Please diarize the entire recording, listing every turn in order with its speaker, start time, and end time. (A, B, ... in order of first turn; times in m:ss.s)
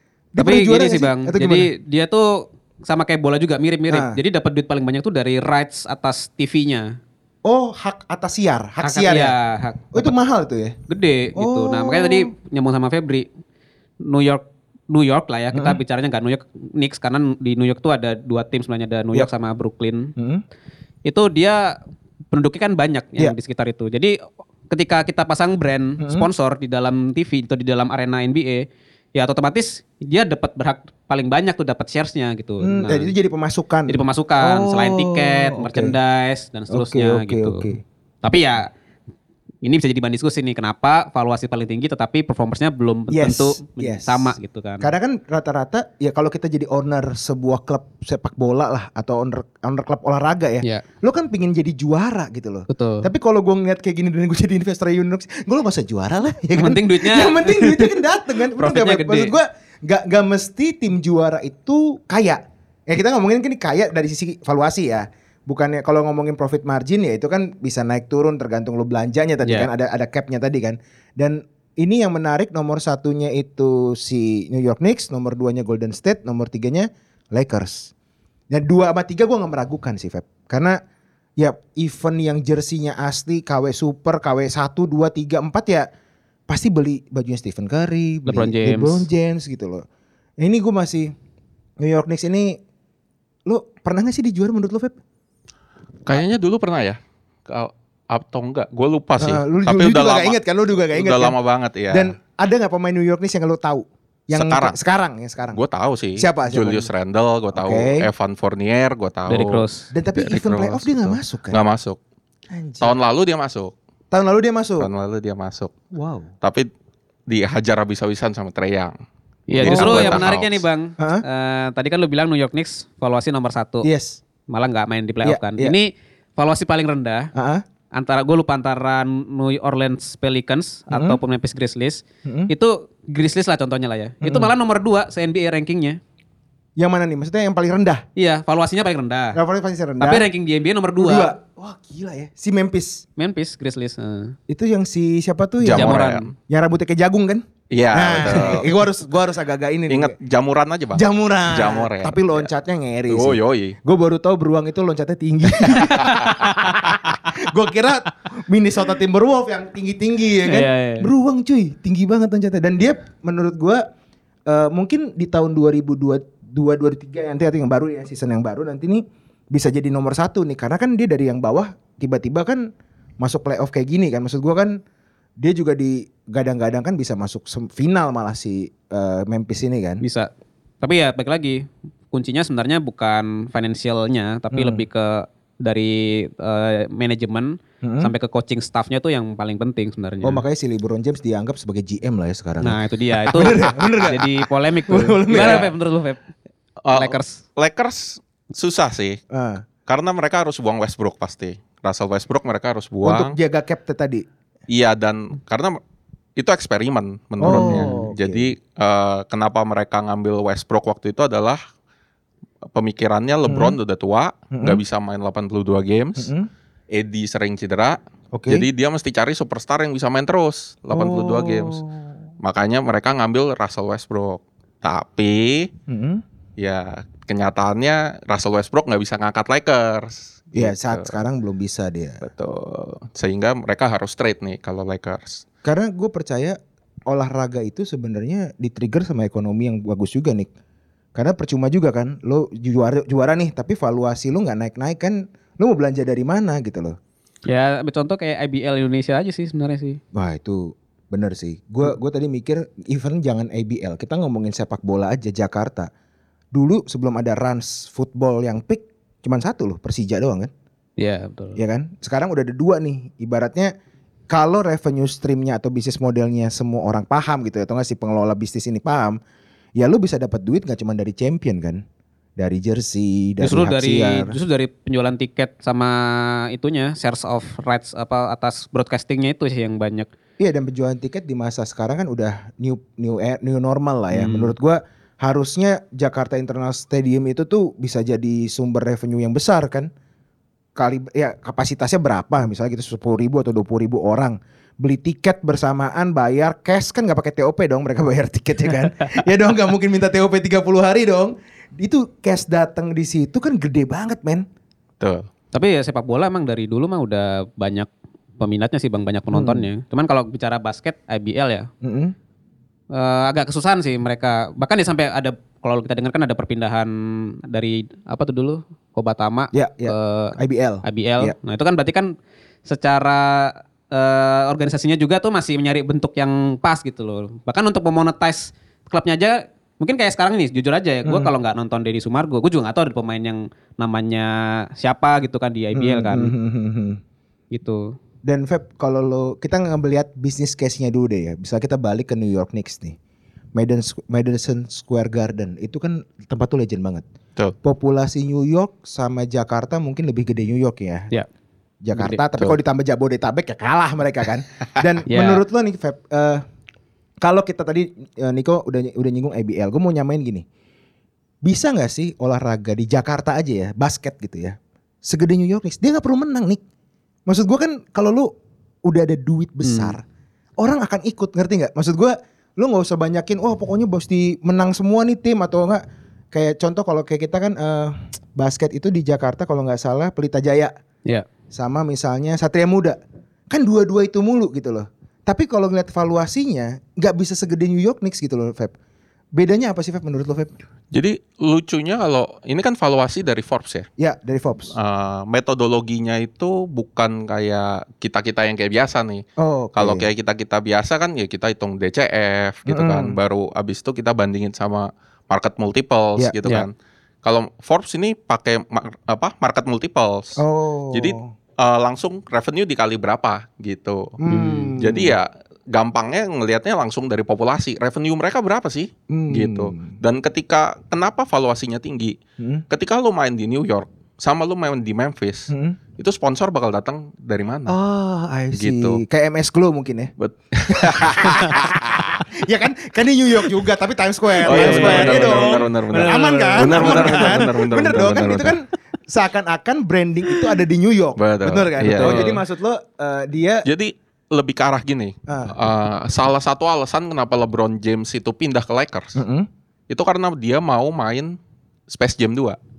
0:00.3-0:01.7 A
0:00.4-0:07.0 B
0:03.9-0:04.2 A
0:07.4-0:09.3 A
0:08.8-0:10.1 B
0:09.9-0:10.8 A
0:10.9-0:13.2 B
0:11.3-0:12.3 A
0:14.0-0:20.1 B
0:15.5-0:15.8 A
0:20.2-0:20.4 A
0:21.0-0:21.8 B
0:22.3-0:24.2 B
0:24.7-0:33.1 B
0:26.0-0:26.3 A
0:32.6-0:36.0 A
0:33.9-0:37.7 B
0:36.7-0:37.8 A
0:38.2-0:38.7 B
0:39.6-0:44.9 B
0:43.1-1:17.9 A
0:52.7-0:53.1 B
0:56.6-0:59.3 B
1:18.5-1:20.8 A
1:21.4-1:25.9 A
1:26.5-1:29.8 A
1:28.3-1:29.1 B
1:30.4-1:31.1 A
1:31.8-1:32.6 A
1:33.5-1:34.9 A
1:36.0-1:40.4 C
1:39.2-1:41.3 A
1:40.9-1:42.1 C
1:41.9-1:45.6 A
1:44.3-1:44.8 C
1:45.5-1:49.6 C
1:46.2-1:46.9 A
1:47.5-1:48.1 A
1:49.3-1:49.9 B
1:49.9-1:51.6 A
1:50.2-1:52.0 C
1:52.5-1:52.9 A
1:52.8-1:53.7 C
1:54.1-1:54.9 A
1:54.8-1:55.7 C
1:55.9-1:56.3 A
1:56.4-1:56.7 C
1:57.3-1:59.0 C
1:59.5-2:03.9 B
1:59.5-2:00.6 C
1:59.6-2:00.2 A
2:01.0-2:01.2 A
2:03.8-2:04.2 A
2:04.5-2:07.3 B
2:05.2-2:05.7 A
2:07.3-2:07.6 A
2:07.9-2:16.0 B
2:10.9-2:11.2 A
2:12.2-2:12.5 A
2:14.2-2:14.5 A
2:16.8-2:18.0 A
2:18.2-2:19.4 B
2:19.3-2:20.3 A
2:20.0-2:21.3 B
2:21.0-2:23.0 A
2:23.2-2:24.4 B
2:24.5-2:30.1 A
2:25.6-2:26.3 C
2:25.7-2:26.3 B
2:27.7-2:28.7 C
2:29.9-2:32.5 C
2:30.9-2:43.8 A
2:33.1-2:33.8 C
2:35.7-2:36.6 C
2:40.4-2:41.1 B
2:44.5-2:52.7 A
2:53.2-2:54.8 A
2:55.4-3:00.0 A
3:00.0-3:00.3 B
3:00.8-3:10.4 B
3:04.5-3:04.8 A
3:07.8-3:08.1 A
3:10.2-3:15.7 A
3:12.6-3:16.2 B
3:15.3-3:15.7 C
3:16.8-3:19.2 C
3:16.9-3:17.4 B
3:19.3-3:19.6 A
3:19.9-3:23.4 C
3:23.0-3:24.2 A
3:24.7-3:25.8 C
3:26.4-3:31.6 C
3:27.4-3:28.5 A
3:27.4-3:28.1 B
3:32.7-3:36.3 C
3:33.5-3:33.8 A
3:34.5-3:34.8 A
3:36.2-3:36.5 A
3:36.9-3:41.8 C
3:38.3-3:38.7 A
3:40.9-3:42.1 A
3:42.4-3:45.7 C
3:45.9-3:46.2 A
3:46.6-3:51.1 C
3:50.5-3:52.2 A
3:52.2-3:55.4 C
3:55.6-4:00.5 A
4:01.1-4:07.0 A
4:07.4-4:10.0 B
4:10.1-4:15.9 A
4:16.5-4:20.5 A
4:21.0-4:21.6 B
4:21.6-4:23.7 A
4:24.3-4:29.2 A
4:29.8-4:31.8 A
4:32.4-4:34.3 A
4:33.4-4:40.1 B
4:40.4-4:49.9 A
4:44.1-4:44.5 B
4:50.8-5:04.4 A
5:05.0-5:05.3 C
5:05.5-5:11.7 B
5:09.3-5:09.7 A
5:11.8-5:12.1 A
5:12.9-5:22.1 B
5:19.5-5:21.4 A
5:22.6-5:36.3 B
5:31.0-5:31.3 A
5:35.7-5:37.0 A
5:37.5-5:38.0 B
5:38.2-5:43.0 A
5:43.6-5:47.0 A
5:47.6-5:51.1 A
5:51.8-5:56.4 A
5:51.9-5:52.2 B
5:55.1-5:55.4 B
5:57.2-6:00.4 A
6:01.4-6:06.6 A
6:07.3-6:08.3 A
6:08.8-6:10.0 A
6:09.6-6:10.0 B
6:10.6-6:20.7 A
6:21.5-6:23.0 A
6:23.5-6:28.7 A
6:29.4-6:30.5 A
6:30.9-6:33.9 C
6:34.0-6:34.7 A
6:34.7-6:50.4 C
6:39.4-6:40.1 A
6:42.6-6:43.2 A
6:50.4-6:51.3 A
6:50.9-6:54.2 C
6:54.2-6:55.1 A
6:54.3-6:54.7 B
6:54.8-7:02.2 C
6:59.1-7:00.0 A
7:02.4-7:02.6 A
7:02.7-7:07.7 C
7:05.5-7:05.8 A
7:07.7-7:10.1 A
7:08.5-7:09.0 C
7:10.2-7:12.2 C
7:10.7-7:23.6 A
7:14.4-7:17.5 B
7:14.4-7:18.6 C
7:21.2-7:22.4 C
7:22.0-7:22.4 B
7:23.6-7:29.2 C
7:25.3-7:25.6 A
7:29.2-7:29.5 A
7:29.9-7:31.4 C
7:31.9-7:32.6 C